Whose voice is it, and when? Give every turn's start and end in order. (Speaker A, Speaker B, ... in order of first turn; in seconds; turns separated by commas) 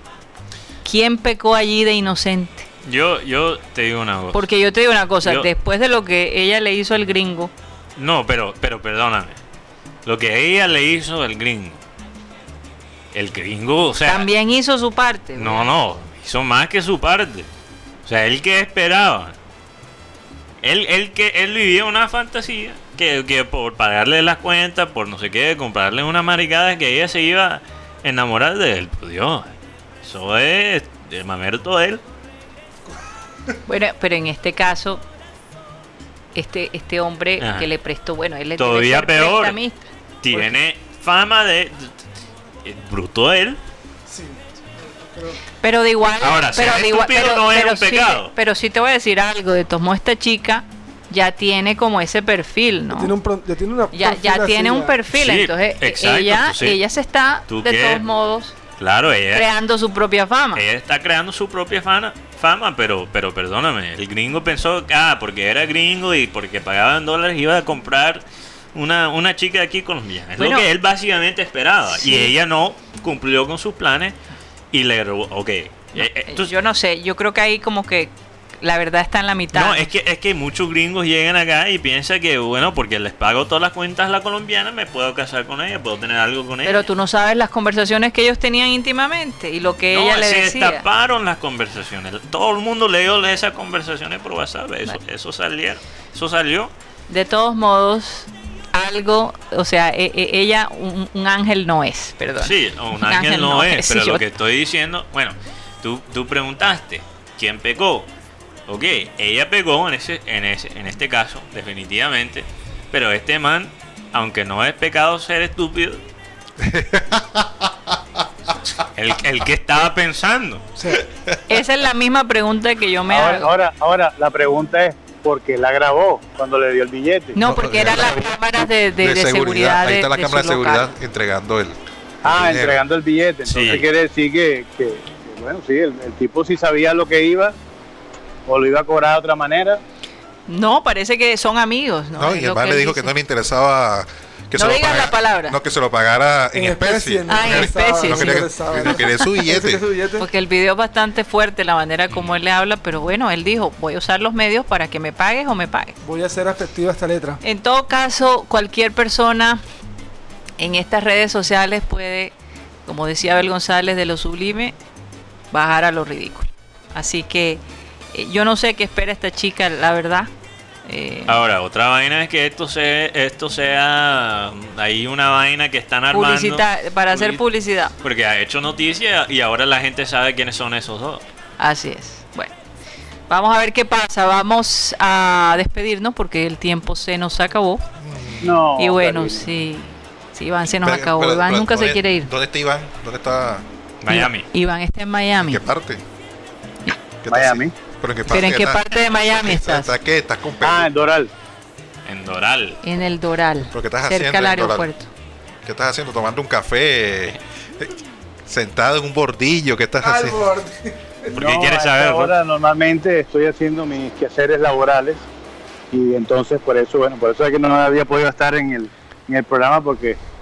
Speaker A: 0.8-2.7, Speaker B: 2.8-4.5, Speaker A: 4.3-7.5, Speaker B: 5.2-5.5, Speaker B: 8.0-9.4, Speaker B: 10.1-11.8, Speaker B: 13.1-14.3, Speaker A: 14.1-15.7, Speaker B: 15.4-17.5, Speaker B: 18.1-19.4, Speaker B: 20.6-29.5, Speaker B: 30.0-32.0, Speaker A: 33.7-35.0, Speaker A: 36.4-40.6, Speaker B: 37.4-37.7, Speaker B: 38.6-39.6, Speaker B: 40.2-41.9, Speaker B: 42.6-43.6, Speaker C: 44.1-45.4, Speaker A: 45.6-53.1, Speaker B: 46.2-48.3, Speaker C: 52.9-55.0, Speaker A: 53.9-58.5, Speaker B: 55.1-56.8, Speaker B: 57.5-58.0, Speaker B: 58.8-59.5, Speaker A: 59.3-60.6, Speaker B: 60.5-68.2, Speaker B: 68.7-74.2, Speaker A: 70.4-70.7, Speaker A: 71.9-72.3, Speaker B: 74.7-76.5, Speaker A: 76.0-79.9, Speaker B: 79.5-86.9, Speaker A: 86.7-90.8, Speaker B: 89.9-96.7, Speaker A: 97.1-104.2, Speaker B: 102.4-108.1, Speaker B: 108.7-116.0, Speaker D: 116.6-118.0, Speaker B: 119.0-120.6, Speaker C: 120.8-121.0, Speaker A: 121.5-123.5, Speaker E: 123.1-127.4, Speaker A: 127.3-130.9, Speaker D: 127.4-128.4, Speaker D: 129.0-132.8, Speaker E: 132.2-137.6, Speaker B: 133.5-133.9, Speaker E: 138.5-139.8, Speaker A: 140.5-143.1, Speaker D: 142.2-149.8, Speaker A: 144.6-145.6, Speaker C: 146.6-150.3, Speaker A: 147.3-149.0, Speaker A: 150.2-155.9, Speaker C: 156.0-157.4, Speaker A: 157.4-159.6, Speaker A: 160.6-162.3, Speaker A: 162.9-164.8, Speaker A: 165.5-167.6, Speaker A: 168.1-170.3, Speaker A: 170.9-171.4, Speaker B: 171.3-177.4, Speaker A: 176.1-177.9, Speaker B: 178.0-181.2, Speaker A: 181.6-182.5, Speaker A: 183.3-187.8, Speaker D: 188.0-188.5, Speaker E: 188.4-189.5, Speaker A: 188.8-192.3, Speaker D: 190.8-193.7, Speaker B: 194.0-194.5, Speaker A: 194.1-195.6, Speaker D: 195.4-196.0, Speaker D: 197.2-200.9, Speaker E: 197.3-197.7, Speaker A: 198.3-199.9, Speaker E: 200.6-201.3, Speaker B: 202.1-202.8, Speaker A: 202.8-205.1, Speaker D: 203.7-204.9, Speaker D: 205.7-207.9, Speaker D: 208.5-210.5, Speaker C: 210.0-211.3, Speaker B: 211.3-212.3, Speaker E: 211.4-215.2, Speaker E: 215.9-220.2